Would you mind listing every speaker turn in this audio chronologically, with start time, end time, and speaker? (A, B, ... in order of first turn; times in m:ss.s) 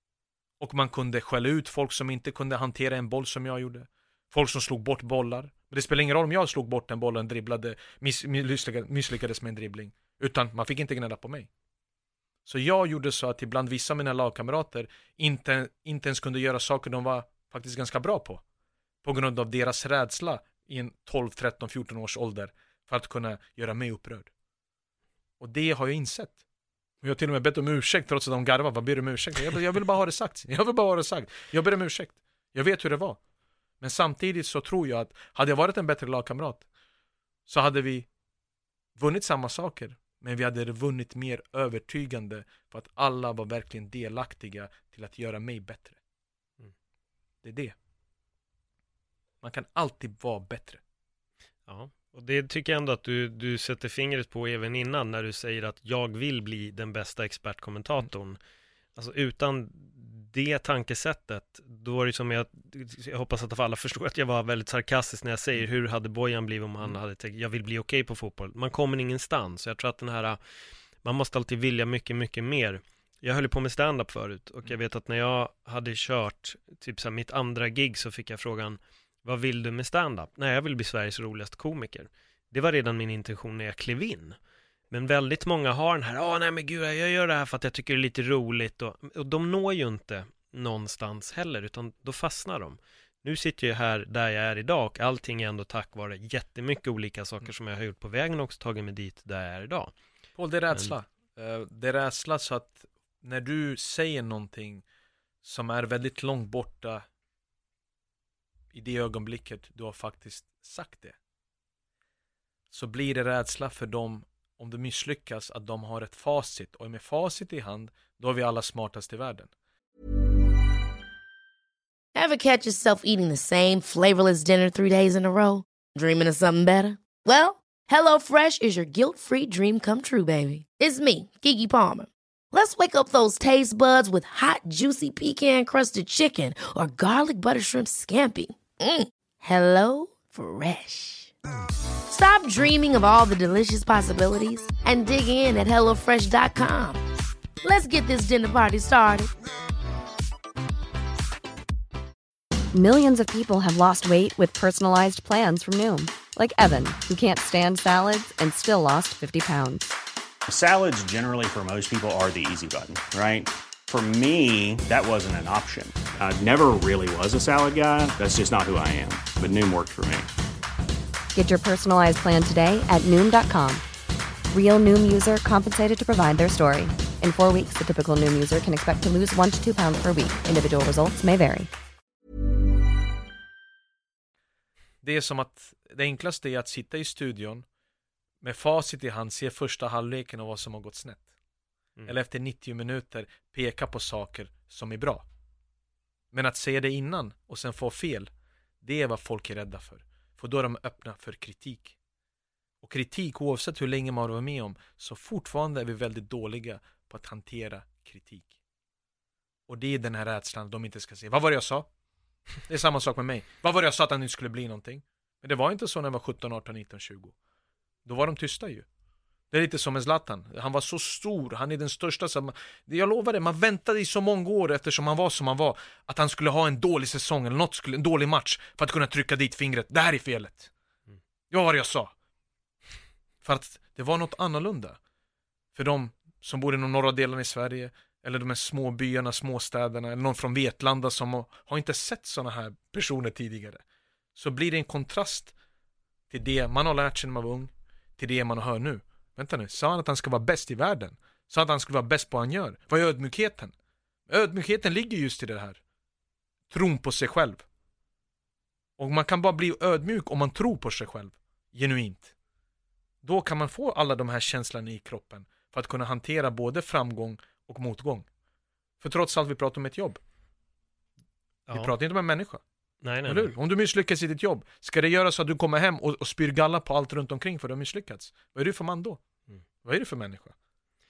0:00.6-0:11.5 A
0:12.4-0:18.4 A
0:19.0-0:24.3 A
0:25.4-0:26.4 A
0:27.0-0:33.2 A
0:33.8-0:36.6 A
0:37.5-0:38.1 A
0:39.0-0:46.0 A
0:47.4-0:47.7 A
0:49.4-0:50.8 A
0:51.6-0:58.4 B
0:58.9-1:10.4 B
1:11.0-1:24.4 B
1:24.9-1:39.9 B
1:40.4-1:44.8 A
1:45.4-1:47.0 A
1:48.7-1:51.2 A
1:52.7-1:59.5 A
2:02.1-2:21.3 C
2:22.1-2:27.0 C
2:27.6-2:29.3 C
2:32.7-2:39.9 D
2:40.5-2:50.3 E
2:51.3-2:53.8 D
2:54.5-3:01.7 D
3:05.0-3:07.6 A
3:08.4-3:11.2 A
3:12.0-3:15.2 A
3:16.3-3:18.3 A
3:18.8-3:21.9 A
3:22.8-3:28.5 A
3:29.7-3:31.9 A
3:32.7-3:37.3 A
3:38.0-3:38.8 A
3:39.5-3:50.7 A
3:51.5-3:52.1 A
3:53.4-3:55.0 A
3:55.7-4:03.8 A
4:04.4-4:05.5 A
4:06.3-4:13.7 A
4:14.3-4:15.8 A
4:16.7-4:17.6 A
4:19.0-4:22.3 A
4:23.2-4:28.2 A
4:29.0-4:30.2 A
4:31.7-4:31.9 B
4:31.7-4:32.6 A
4:33.0-4:33.6 B
4:33.2-4:39.2 A
4:39.8-4:40.5 A